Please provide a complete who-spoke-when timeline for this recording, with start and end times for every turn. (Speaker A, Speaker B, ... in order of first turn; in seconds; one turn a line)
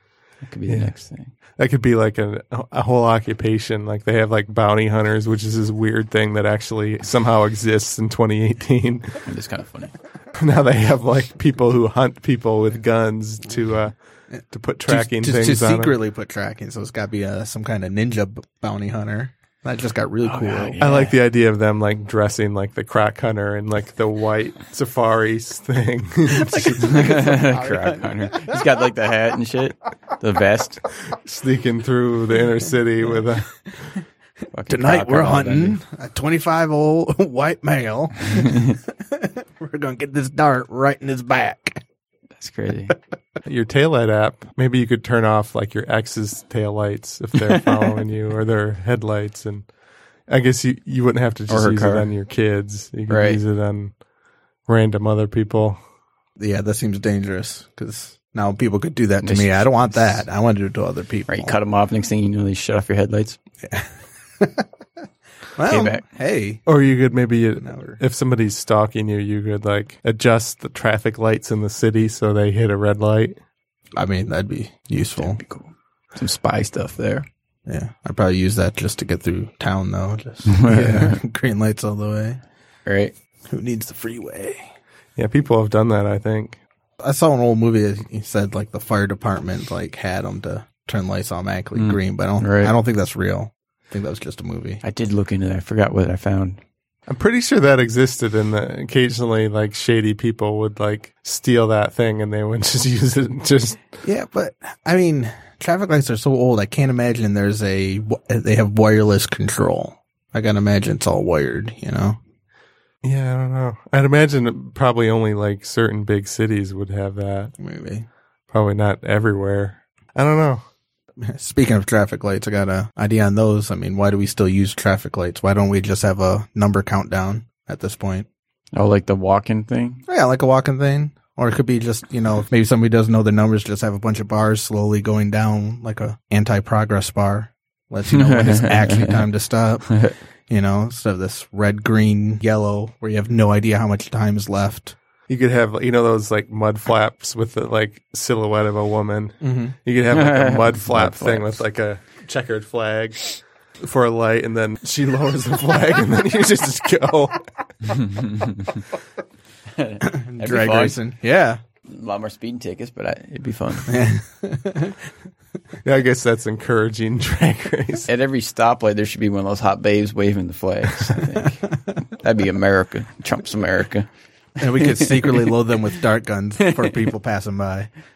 Speaker A: 0.4-1.3
Speaker B: 0.7-1.0
Speaker B: 1.6-9.2
Speaker A: 9.2-9.9
Speaker B: 10.3-16.0
Speaker C: 14.8-20.8
Speaker A: 20.2-21.2
Speaker B: 20.8-26.8
Speaker C: 26.3-28.6
Speaker A: 26.8-30.8
Speaker B: 31.1-33.7
Speaker A: 34.5-35.8
Speaker C: 34.7-41.8
Speaker A: 42.4-43.0
Speaker B: 43.4-49.7
Speaker A: 47.5-47.9
Speaker B: 50.3-54.0
Speaker A: 51.5-52.1
Speaker A: 53.1-53.4
Speaker B: 54.6-55.8
Speaker C: 56.4-61.5
Speaker A: 59.2-60.2
Speaker A: 61.3-63.4
Speaker C: 63.6-64.6
Speaker C: 65.6-66.6
Speaker A: 65.7-66.0
Speaker B: 66.7-73.4
Speaker C: 67.6-68.0
Speaker C: 74.0-75.4
Speaker A: 75.2-77.2
Speaker C: 77.7-82.4
Speaker A: 80.5-81.2
Speaker A: 82.8-83.1
Speaker C: 83.5-84.6
Speaker B: 85.2-86.6
Speaker C: 87.0-94.8
Speaker A: 91.7-92.7
Speaker A: 94.8-96.6
Speaker B: 97.1-103.8
Speaker C: 104.0-112.2
Speaker B: 113.0-117.5
Speaker C: 117.6-118.1
Speaker B: 118.5-120.6
Speaker C: 121.2-128.3
Speaker A: 128.7-130.0
Speaker C: 130.1-139.9
Speaker A: 138.1-139.2
Speaker A: 139.9-140.1
Speaker C: 140.5-144.9
Speaker B: 145.3-158.2
Speaker C: 149.4-149.7
Speaker A: 150.1-151.6
Speaker A: 157.9-158.8
Speaker A: 159.7-161.0
Speaker C: 160.0-161.6
Speaker A: 161.9-164.0
Speaker C: 163.9-165.0
Speaker B: 165.8-168.1
Speaker A: 168.1-171.6
Speaker A: 172.2-174.1
Speaker C: 174.6-177.9
Speaker A: 174.8-175.5